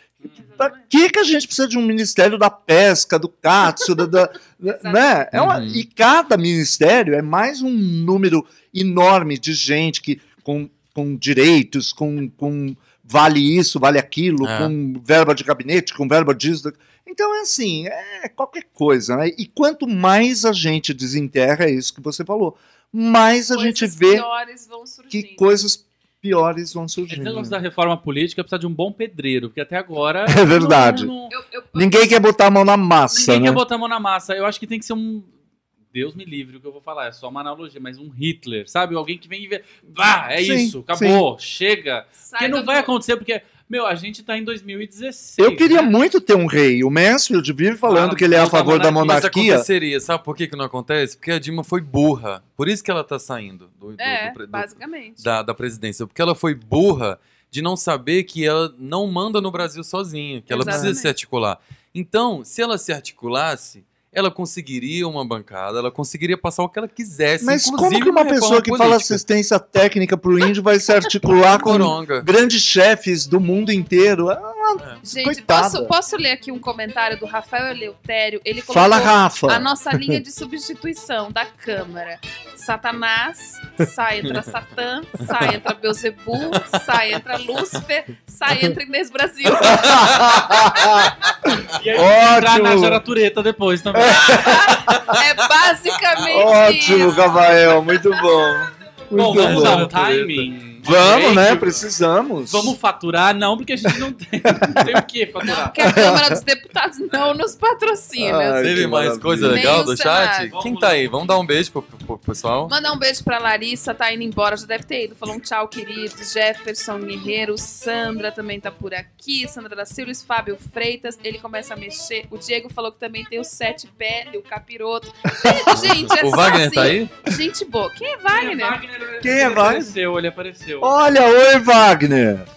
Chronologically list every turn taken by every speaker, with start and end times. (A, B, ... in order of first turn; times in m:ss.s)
0:00.3-0:00.8 A
0:00.3-0:24.2 B
0:04.7-0:05.1 A
0:05.3-0:05.8 C
0:14.4-0:14.7 C
0:23.5-0:25.5 A
0:25.1-0:27.6 B
0:27.1-0:31.3 D
0:30.3-0:31.1 B
0:31.3-0:32.2 A
0:31.7-0:33.6 B
0:33.1-0:35.3 D
0:35.9-0:45.9 D
0:40.3-0:41.2 B
0:42.2-0:42.9 A
0:45.4-0:49.7 B
0:47.8-0:49.3 D
0:48.4-1:09.2 C
0:54.0-0:55.2 A
1:00.5-1:01.1 A
1:00.6-1:00.9 B
1:07.4-1:15.9 B
1:11.4-1:12.3 C
1:15.0-1:31.3 A
1:18.6-1:20.2 B
1:29.6-1:33.0 B
1:31.7-1:34.7 D
1:33.9-1:35.2 B
1:34.4-1:38.5 A
1:34.9-1:35.2 C
1:36.3-1:39.9 B
1:39.1-1:41.8 D
1:39.2-1:40.5 C
1:40.8-1:42.7 B
1:42.5-1:45.8 D
1:44.5-1:44.9 B
1:45.4-1:48.6 A
1:45.8-1:46.4 B
1:48.2-1:49.9 B
1:48.6-1:52.7 C
1:49.4-1:50.5 A
1:50.5-1:51.0 D
1:52.7-2:08.8 A
2:05.4-2:05.8 B
2:05.7-2:07.1 C
2:08.3-2:10.9 D
2:09.2-2:09.9 B
2:10.8-2:12.5 B